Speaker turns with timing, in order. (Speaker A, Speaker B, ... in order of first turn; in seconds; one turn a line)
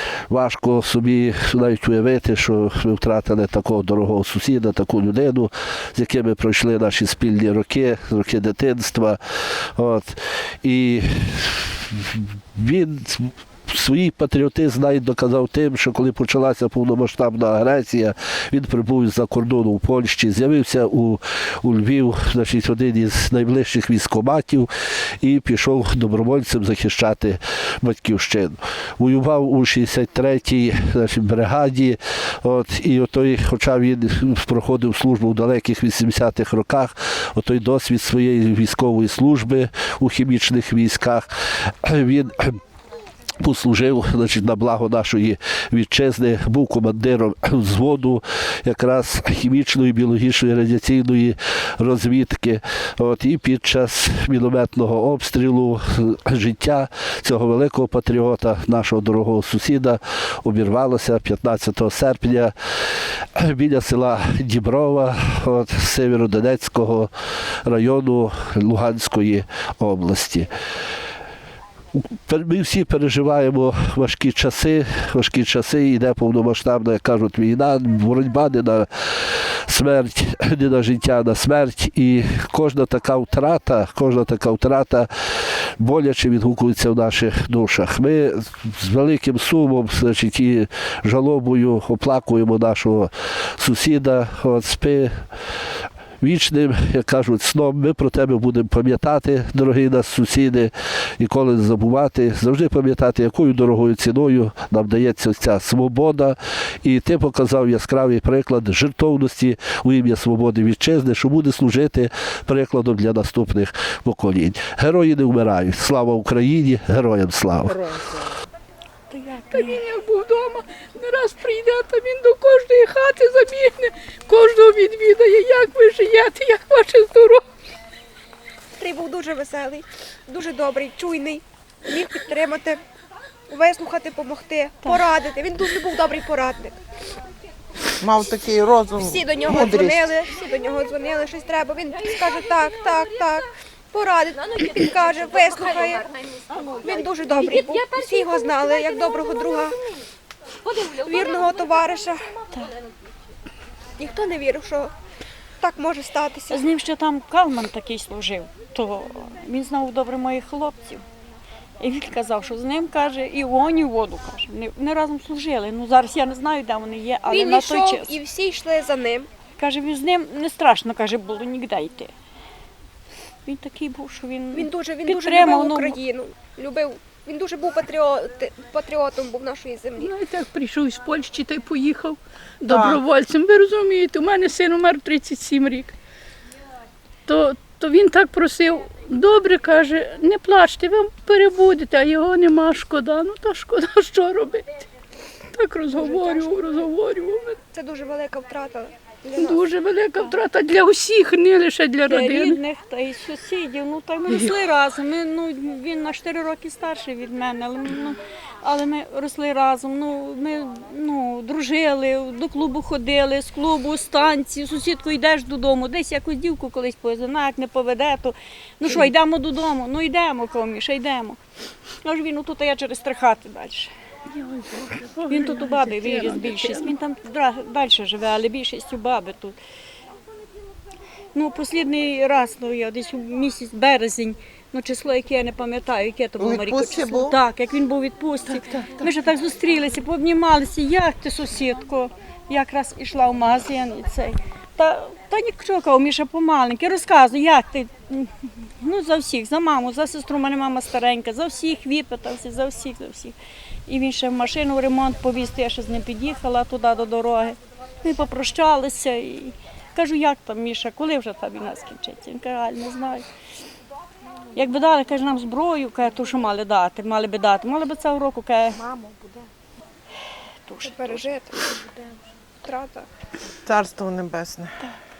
Speaker A: 0.3-42.6
Speaker A: 43.4-67.1
Speaker A: 67.6-70.5
Speaker A: 71.9-95.3
Speaker A: 96.2-117.9
Speaker B: 117.7-118.4
Speaker C: 119.1-119.8
Speaker D: 119.5-127.4
Speaker E: 128.8-132.8
Speaker E: 133.5-136.8
Speaker B: 138.0-140.0
Speaker E: 139.0-146.1
Speaker E: 146.7-149.7
Speaker E: 150.9-152.2
Speaker E: 154.0-154.9
Speaker E: 155.6-156.7
Speaker C: 156.5-161.0
Speaker C: 161.8-168.2
Speaker E: 167.3-169.3
Speaker C: 169.6-172.1
Speaker C: 173.4-176.0
Speaker E: 174.5-180.1
Speaker D: 180.0-185.9
Speaker B: 182.7-183.0
Speaker D: 187.3-194.9
Speaker D: 195.5-197.6
Speaker E: 195.9-196.7
Speaker E: 197.7-199.7
Speaker D: 199.4-202.6
Speaker C: 202.0-221.4
Speaker D: 218.8-219.1
Speaker C: 222.0-223.9
Speaker D: 224.3-226.9
Speaker C: 225.2-229.6
Speaker C: 231.3-253.4
Speaker B: 236.4-237.4
Speaker C: 253.9-263.3
Speaker C: 264.5-268.9
Speaker C: 270.7-271.2
Speaker E: 270.8-271.7
Speaker E: 272.6-273.1
Speaker B: 273.6-274.7